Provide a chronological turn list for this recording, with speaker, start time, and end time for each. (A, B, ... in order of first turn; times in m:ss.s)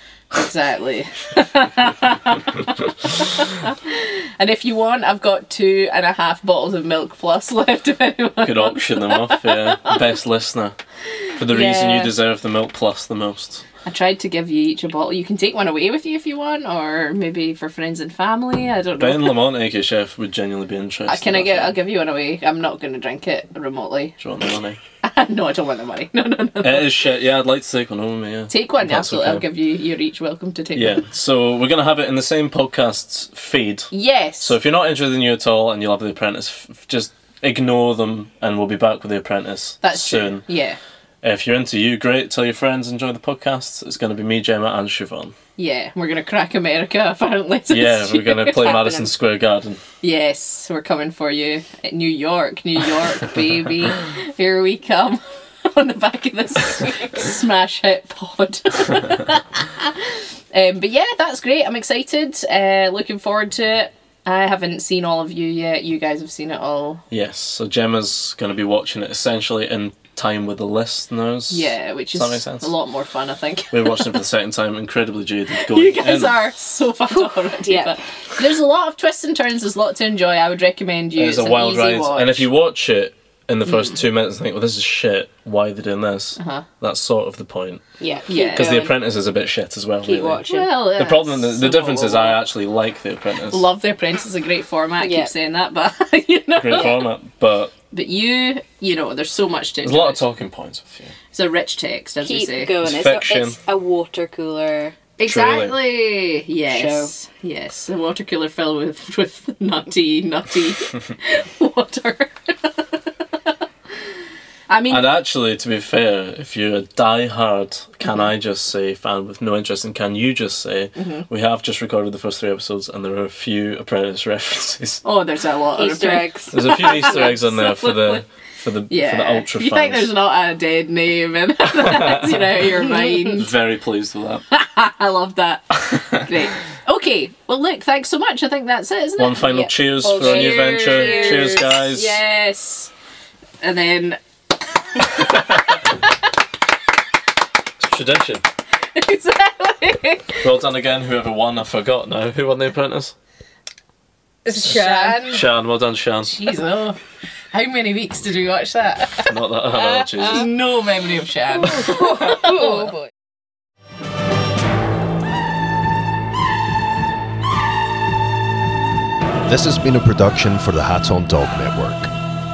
0:00.3-0:10.0 A
0:08.4-0:10.8 B
0:11.4-0:13.6 B
0:11.4-0:12.1 A
0:13.8-0:19.4 A
0:19.0-0:21.8 B
0:21.1-0:24.1 A
0:24.2-0:24.8 B
0:25.0-0:26.9 A
0:26.6-0:29.4 B
0:28.5-0:31.0 A
0:30.7-0:40.4 B
0:33.9-0:34.5 A
0:39.8-0:40.8 A
0:41.2-0:45.3 B
0:45.6-0:49.0 A
0:47.7-0:49.8 B
0:50.0-1:07.0 A
1:07.1-1:12.7 B
1:11.5-1:14.2 A
1:13.7-1:16.4 B
1:15.5-1:22.5 A
1:17.1-1:17.9 C
1:21.2-1:27.8 B
1:23.6-1:23.9 A
1:26.4-1:26.6 A
1:28.0-1:28.9 C
1:28.3-1:28.9 A
1:28.5-1:33.7 B
1:30.0-1:30.7 C
1:30.5-1:32.4 A
1:33.5-1:37.0 A
1:35.0-1:35.3 C
1:36.6-1:37.7 B
1:37.9-1:40.2 A
1:39.8-1:41.2 B
1:41.3-1:42.8 A
1:42.2-1:45.0 C
1:42.8-1:43.6 B
1:45.2-1:52.8 A
1:45.2-1:45.8 B
1:46.7-1:47.1 C
1:54.7-1:55.1 A
1:54.9-2:05.0 B
2:01.0-2:01.2 A
2:05.0-2:08.2 A
2:05.8-2:07.3 C
2:06.5-2:10.1 B
2:08.9-2:13.5 A
2:11.9-2:12.2 B
2:12.9-2:13.3 C
2:13.3-2:14.4 B
2:14.5-2:22.9 A
2:19.2-2:22.2 B
2:20.0-2:21.6 C
2:23.6-2:24.2 A
2:25.0-2:25.8 A
2:27.8-2:28.4 B
2:28.9-2:30.4 A
2:30.4-2:33.1 B
2:34.4-2:35.3 C
2:34.5-2:35.5 A
2:35.2-2:36.4 B
2:36.2-2:37.0 A
2:37.5-2:39.4 A
2:39.2-2:40.5 B
2:40.2-2:42.9 A
2:41.6-2:43.1 C
2:49.4-2:52.1 D